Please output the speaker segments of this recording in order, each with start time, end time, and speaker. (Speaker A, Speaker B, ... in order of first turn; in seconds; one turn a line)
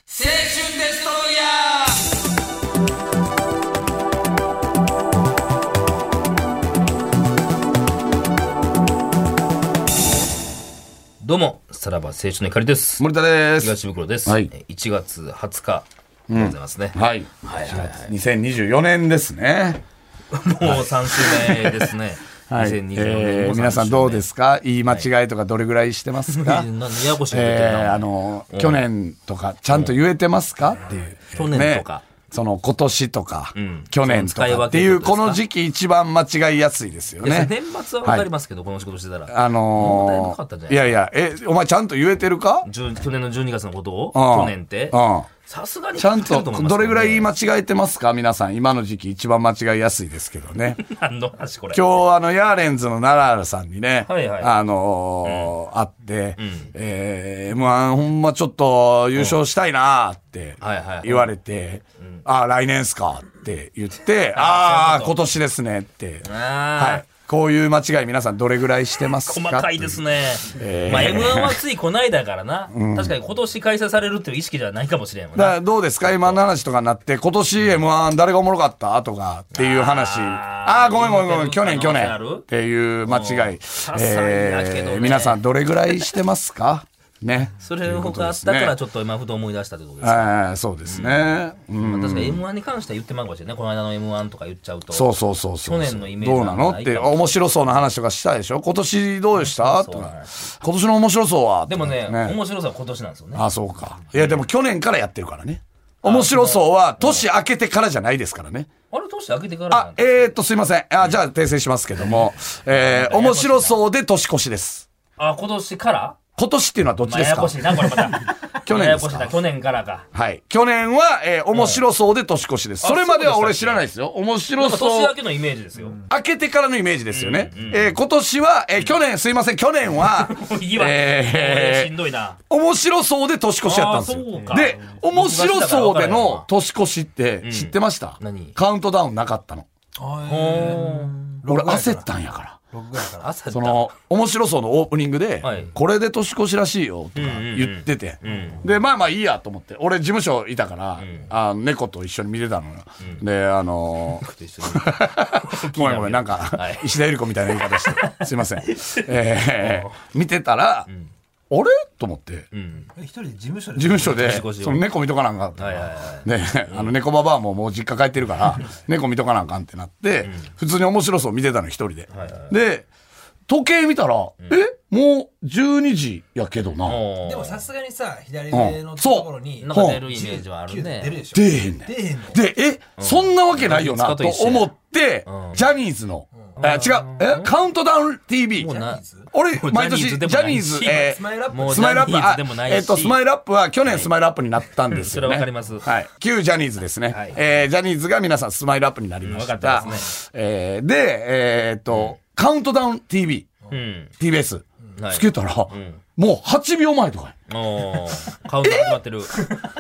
Speaker A: 11.2-18.1
Speaker B: 13.0-14.5
Speaker B: 16.3-19.8
Speaker A: 20.3-24.3
Speaker B: 20.6-21.9
Speaker B: 22.5-38.3
Speaker A: 26.3-28.9
Speaker A: 29.7-30.0
Speaker A: 31.3-32.1
Speaker A: 33.5-35.4
Speaker A: 37.2-41.0
Speaker B: 39.3-42.7
Speaker A: 42.6-47.3
Speaker B: 44.1-45.3
Speaker B: 46.0-50.8
Speaker A: 50.8-51.9
Speaker B: 51.7-71.6
Speaker A: 54.0-54.5
Speaker A: 55.2-55.5
Speaker A: 56.4-56.7
Speaker A: 60.6-61.4
Speaker A: 64.3-65.2
Speaker A: 66.2-67.0
Speaker A: 69.2-76.4
Speaker B: 72.7-73.2
Speaker B: 75.3-88.8
Speaker A: 79.5-82.5
Speaker A: 83.0-86.1
Speaker A: 87.6-90.3
Speaker B: 90.0-92.4
Speaker A: 90.9-95.1
Speaker B: 94.9-102.4
Speaker A: 95.6-97.5
Speaker A: 99.4-100.4
Speaker A: 101.7-103.5
Speaker B: 103.3-108.7
Speaker A: 104.1-104.4
Speaker A: 106.0-107.3
Speaker A: 108.9-110.4
Speaker B: 109.7-114.9
Speaker A: 112.1-113.8
Speaker A: 115.2-116.2
Speaker B: 116.4-118.1
Speaker A: 117.0-120.1
Speaker B: 118.6-119.4
Speaker B: 120.1-125.2
Speaker A: 121.5-121.8
Speaker A: 122.8-123.9
Speaker A: 124.6-126.0
Speaker B: 126.1-131.9
Speaker A: 127.1-128.0
Speaker A: 130.0-132.4
Speaker B: 132.5-139.7
Speaker A: 133.6-136.5
Speaker C: 134.4-134.7
Speaker A: 137.4-138.6
Speaker C: 140.0-142.1
Speaker A: 140.3-141.2
Speaker B: 141.4-142.6
Speaker C: 142.7-143.3
Speaker A: 143.2-143.9
Speaker B: 143.5-160.9
Speaker A: 145.4-145.8
Speaker A: 147.2-148.7
Speaker A: 151.0-151.3
Speaker A: 154.0-157.0
Speaker A: 157.5-159.9
Speaker B: 161.5-162.5
Speaker A: 162.5-162.9
Speaker C: 162.9-164.3
Speaker B: 163.8-172.9
Speaker A: 164.0-164.8
Speaker A: 165.6-166.9
Speaker A: 172.1-172.6
Speaker B: 173.5-177.0
Speaker A: 176.8-177.7
Speaker C: 177.2-182.4
Speaker B: 178.5-180.1
Speaker A: 179.6-181.2
Speaker B: 181.3-203.5
Speaker A: 183.0-184.7
Speaker A: 185.3-185.7
Speaker A: 186.6-187.5
Speaker A: 188.6-193.2
Speaker C: 188.6-189.3
Speaker C: 190.9-192.1
Speaker A: 194.9-195.9
Speaker A: 197.1-197.4
Speaker A: 199.2-200.1
Speaker A: 201.9-202.2
Speaker A: 203.7-204.1
Speaker B: 204.2-207.3
Speaker A: 205.0-206.0
Speaker A: 207.5-209.4
Speaker B: 208.6-208.9